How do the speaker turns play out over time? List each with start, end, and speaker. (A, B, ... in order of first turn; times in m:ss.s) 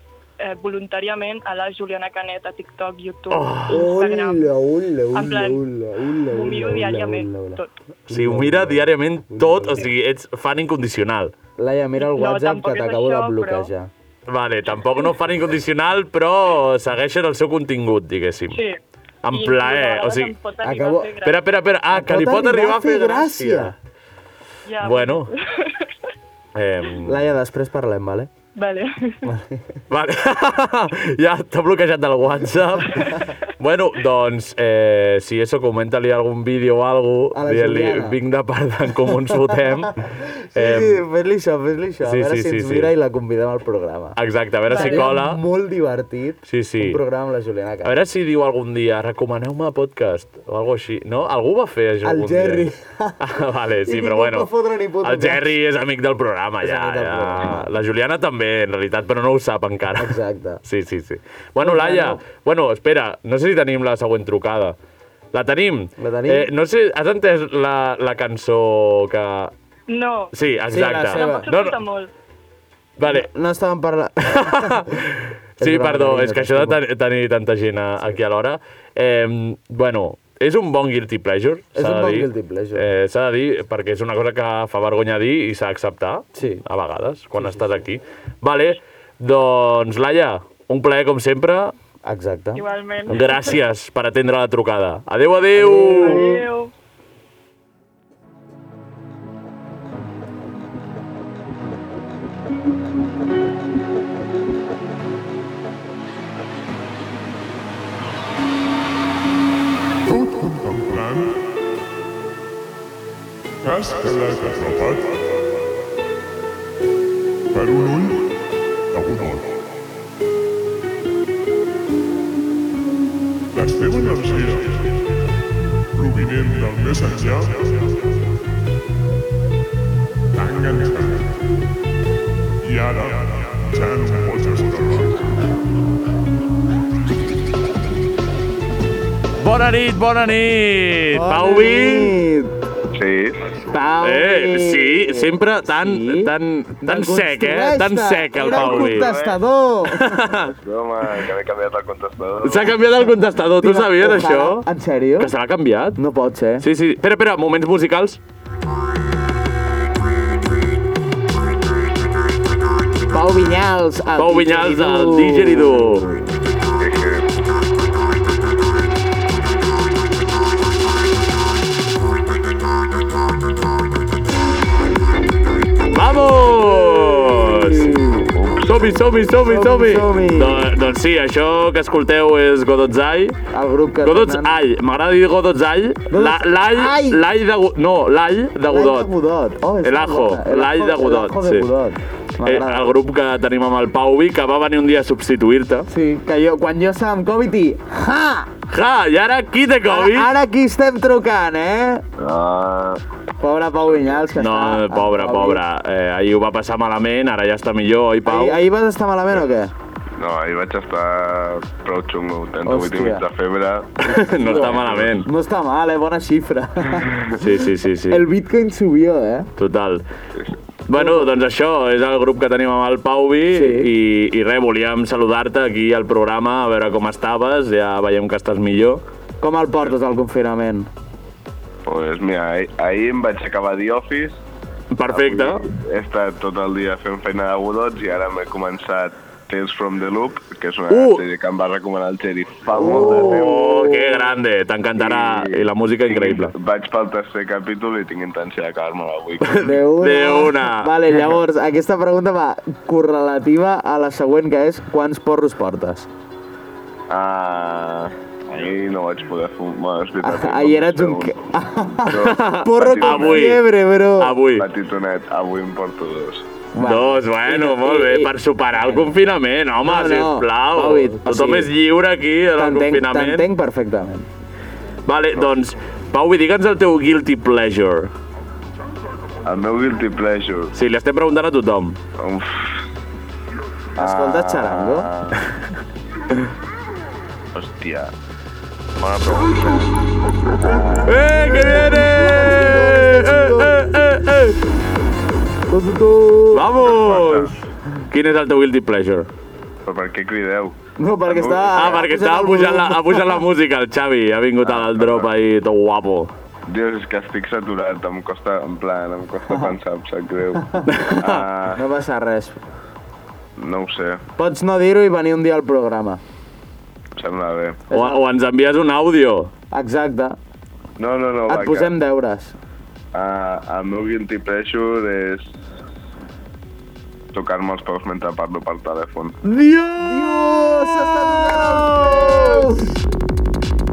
0:00.4-0:04.4 A
0:03.3-0:03.9 B
0:03.7-0:09.8 C
0:05.1-0:05.6 A
0:06.3-0:07.7 A
0:08.1-0:11.3 B
0:11.6-0:13.9 C
0:12.0-0:13.7 A
0:14.3-0:18.6 B
0:18.5-0:21.4 A
0:19.2-0:20.4 B
0:20.6-0:21.1 C
0:21.2-0:23.7 B
0:21.9-0:23.7 C
0:24.6-0:25.9 A
0:24.8-0:25.3 B
0:26.5-0:27.2 B
0:27.0-0:28.3 C
0:28.6-0:29.3 A
0:29.2-0:29.6 C
0:29.9-0:40.0 B
0:37.3-0:38.2 C
0:39.1-0:44.2 C
0:40.5-0:41.0 B
0:42.0-0:42.9 B
0:44.2-0:45.4 B
0:44.7-0:45.1 A
0:44.7-0:47.9 C
0:46.5-0:47.0 B
0:47.8-0:52.6 B
0:52.0-0:53.3 C
0:53.2-0:54.5 B
0:53.8-0:55.5 C
0:55.0-1:04.8 B
0:56.6-0:57.7 C
1:00.0-1:00.6 C
1:01.6-1:02.2 C
1:05.3-1:09.5 B
1:06.0-1:06.5 C
1:09.9-1:10.3 A
1:10.3-1:11.8 B
1:10.7-1:11.5 C
1:11.1-1:12.1 A
1:13.0-1:13.3 B
1:13.0-1:14.9 C
1:14.3-1:31.7 B
1:15.6-1:16.8 C
1:21.8-1:22.8 C
1:26.4-1:26.6 C
1:27.4-1:27.8 C
1:32.0-1:32.6 C
1:32.6-1:33.6 A
1:33.1-1:36.3 B
1:35.5-1:36.4 C
1:36.0-1:36.7 A
1:50.1-1:51.3 D
1:53.6-1:55.2 D
1:57.5-1:58.4 D
1:58.9-1:59.5 D
2:03.5-2:05.0 D
2:05.9-2:07.9 D
2:10.3-2:11.3 D
2:12.6-2:15.2 D
2:19.4-2:22.1 B
2:21.1-2:22.5 C
2:22.9-2:23.4 E
2:23.7-2:26.3 C
2:24.0-2:29.1 B
2:26.8-2:30.2 C
2:28.4-2:29.4 E
2:29.9-2:30.5 B
2:30.5-2:32.8 E
2:32.4-2:34.6 B
2:33.6-2:35.3 C
2:35.2-2:36.0 B
2:36.0-2:36.6 C
2:36.6-2:38.2 B
2:43.1-2:46.2 C
2:44.2-2:46.0 B
2:46.8-2:47.2 E
2:55.9-2:58.0 B
2:56.5-2:58.3 C
2:58.4-2:59.0 E
2:58.6-3:03.4 B
2:59.4-3:00.7 C
3:03.5-3:04.5 C
3:04.0-3:09.1 B
3:06.1-3:07.2 C
3:08.6-3:12.9 C
3:09.8-3:11.7 B
3:12.4-3:15.9 B
3:15.9-3:18.5 C
3:18.7-3:20.3 B
3:19.9-3:22.0 C
3:22.2-3:23.0 E
3:23.4-3:25.6 C
3:24.4-3:28.6 B
3:28.2-3:29.7 C
3:30.2-3:35.1 E
3:32.6-3:33.2 C
3:34.0-3:35.3 B
3:34.1-3:39.5 C
3:37.4-3:38.2 B
3:39.6-3:40.0 B
3:40.9-3:49.0 B
3:40.9-3:41.3 C
3:43.5-3:43.9 C
3:49.4-3:50.9 C
3:51.8-3:54.4 E
3:54.9-3:55.6 B
3:55.1-4:03.6 E
4:00.9-4:01.2 B
4:02.8-4:04.3 C
4:03.0-4:06.5 B
4:05.0-4:09.7 E
4:09.5-4:10.9 B
4:09.6-4:16.1 C
4:17.1-4:21.4 E
4:20.2-4:24.4 C
4:22.1-4:23.5 E
4:22.2-4:23.6 B
4:24.2-4:24.6 B
4:24.5-4:26.5 E
4:26.7-4:29.2 C
4:26.8-4:33.5 B
4:29.8-4:31.7 C
4:32.6-4:34.3 C
4:35.1-4:38.1 B
4:39.4-4:40.7 E
4:40.7-4:42.0 B
4:42.2-4:42.7 E
4:44.0-4:45.1 C
4:44.0-4:45.4 E
4:47.5-4:48.1 E
4:49.0-4:49.9 E
4:50.6-4:51.1 E
4:51.0-4:54.6 B
4:51.4-4:53.9 C
4:55.7-4:56.6 C
4:56.5-4:59.3 B
4:56.8-4:57.6 E
4:59.8-5:00.8 E
5:01.0-5:03.4 C
5:01.2-5:02.1 E
5:01.8-5:06.3 B
5:04.6-5:05.3 E
5:06.7-5:11.8 E
5:10.7-5:11.0 C
5:10.8-5:11.4 B
5:11.8-5:12.6 C
5:13.6-5:14.2 E
5:14.4-5:16.2 C
5:17.2-5:17.8 E
5:17.9-5:18.2 C
5:17.9-5:19.5 B
5:19.7-5:20.4 C
5:21.0-5:21.9 E
5:21.5-5:22.6 C
5:23.1-5:25.5 E
5:27.3-5:29.4 E
5:29.4-5:32.6 B
5:30.0-5:33.0 C